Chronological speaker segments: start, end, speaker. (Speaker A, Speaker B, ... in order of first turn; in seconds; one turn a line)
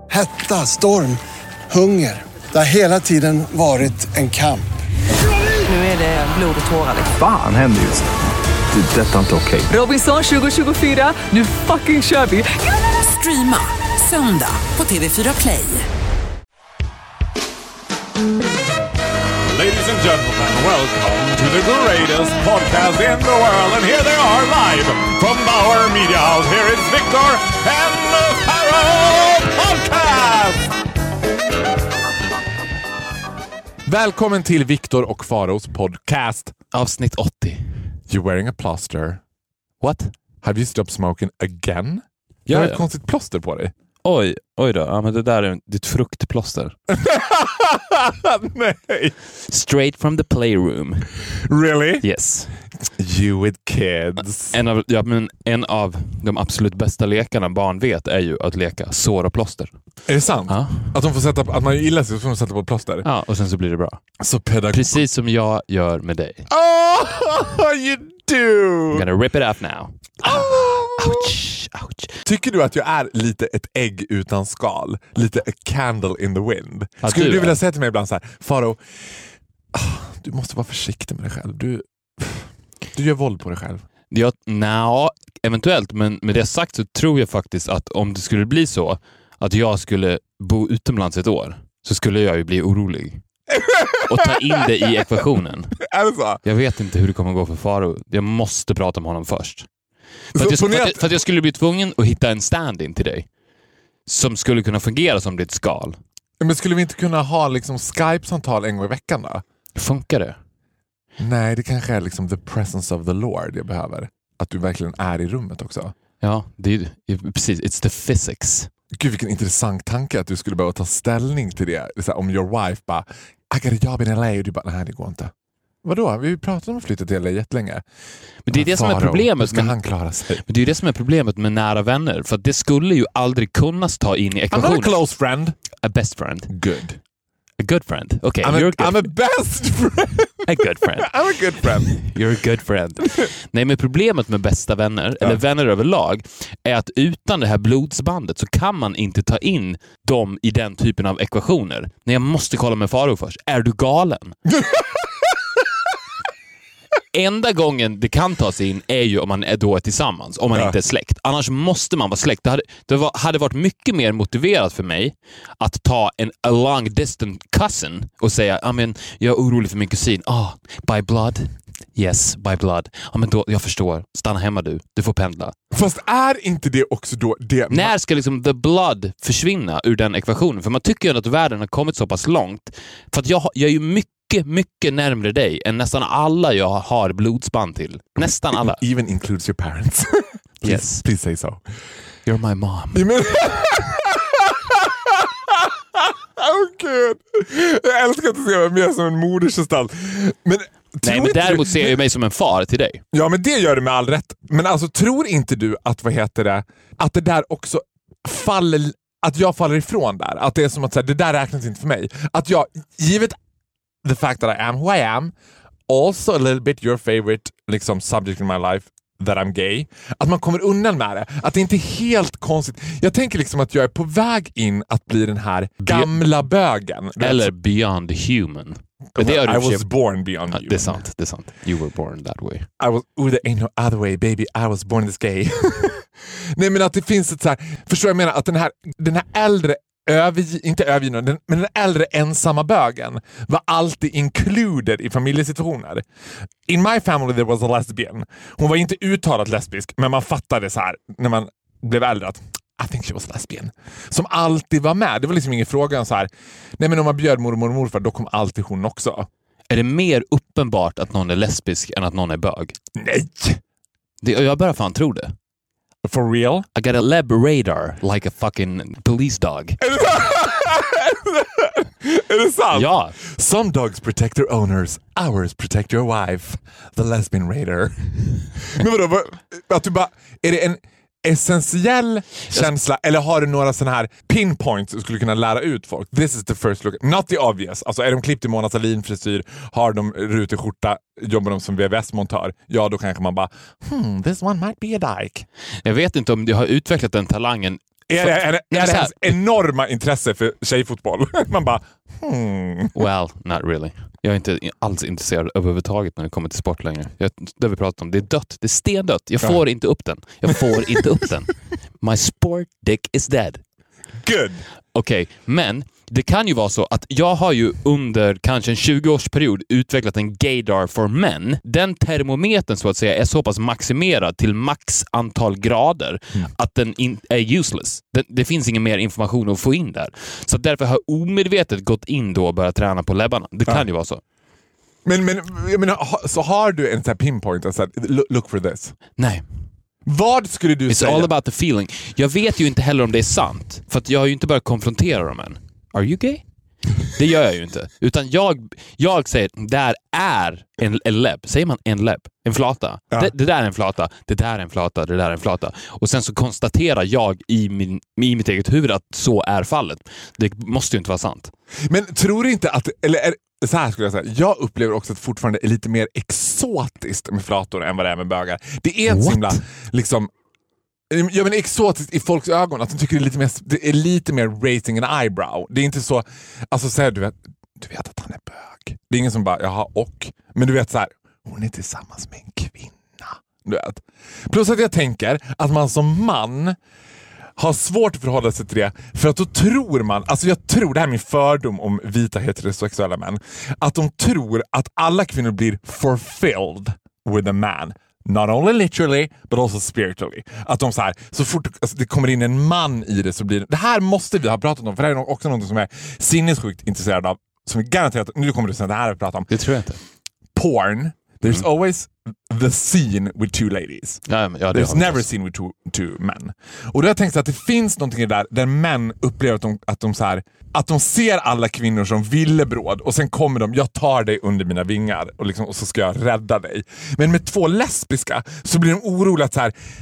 Speaker A: 0.1-4.7
Speaker B: 5.6-7.2
Speaker C: 7.1-8.1
Speaker C: 8.7-9.7
Speaker B: 9.7-15.8
Speaker D: 19.4-30.7
Speaker D: 33.9-36.5
Speaker E: 36.7-37.8
Speaker D: 38.1-39.2
Speaker E: 39.8-40.1
Speaker D: 40.4-43.7
Speaker E: 42.5-42.8
Speaker E: 44.0-46.8
Speaker D: 46.9-49.1
Speaker E: 49.5-51.1
Speaker D: 51.4-52.0
Speaker E: 52.0-52.5
Speaker D: 53.0-54.5
Speaker E: 54.5-59.7
Speaker D: 60.1-63.0
Speaker E: 60.5-60.9
Speaker E: 63.0-64.0
Speaker D: 64.2-64.9
Speaker E: 64.7-66.5
Speaker D: 66.5-69.0
Speaker E: 68.9-72.1
Speaker D: 70.2-71.3
Speaker D: 72.2-78.8
Speaker E: 77.0-77.6
Speaker D: 79.7-83.8
Speaker E: 84.1-93.2
Speaker D: 93.5-95.0
Speaker E: 94.1-95.8
Speaker D: 95.8-96.4
Speaker E: 96.4-99.7
Speaker E: 100.3-103.3
Speaker D: 100.3-101.1
Speaker E: 104.1-106.0
Speaker D: 106.4-109.4
Speaker E: 109.8-110.4
Speaker D: 111.2-115.9
Speaker E: 116.2-118.7
Speaker D: 118.9-125.3
Speaker D: 125.8-127.8
Speaker E: 128.4-129.8
Speaker D: 128.5-130.4
Speaker E: 130.3-135.0
Speaker D: 134.5-135.6
Speaker E: 135.8-136.5
Speaker D: 136.5-137.0
Speaker E: 137.6-139.1
Speaker D: 138.4-140.4
Speaker E: 140.4-141.1
Speaker D: 141.0-142.0
Speaker E: 141.8-154.4
Speaker D: 154.5-155.3
Speaker E: 157.1-175.5
Speaker D: 175.7-177.9
Speaker E: 177.7-188.8
Speaker D: 188.5-191.6
Speaker E: 190.6-191.0
Speaker E: 192.2-193.1
Speaker D: 192.9-201.9
Speaker E: 201.0-203.0
Speaker D: 203.1-213.4
Speaker D: 214.0-215.3
Speaker D: 215.9-227.5
Speaker E: 225.8-226.2
Speaker E: 227.2-229.9
Speaker D: 229.1-231.0
Speaker E: 230.5-232.7
Speaker D: 232.8-246.0
Speaker D: 246.7-259.3
Speaker E: 259.7-262.7
Speaker D: 262.9-263.6
Speaker E: 264.2-265.3
Speaker D: 266.0-266.6
Speaker E: 266.7-269.8
Speaker D: 269.8-295.4
Speaker E: 272.7-273.1
Speaker E: 295.8-299.3
Speaker D: 298.1-302.9
Speaker E: 302.9-313.6
Speaker D: 314.2-314.6
Speaker E: 314.9-334.2
Speaker D: 335.0-338.9
Speaker E: 339.1-339.4
Speaker D: 340.1-341.3
Speaker E: 340.9-346.4
Speaker E: 347.0-361.5
Speaker D: 361.9-370.3
Speaker E: 369.1-369.6
Speaker D: 371.1-386.8
Speaker D: 387.6-409.5
Speaker E: 409.5-410.0
Speaker D: 410.5-429.7
Speaker E: 414.3-415.2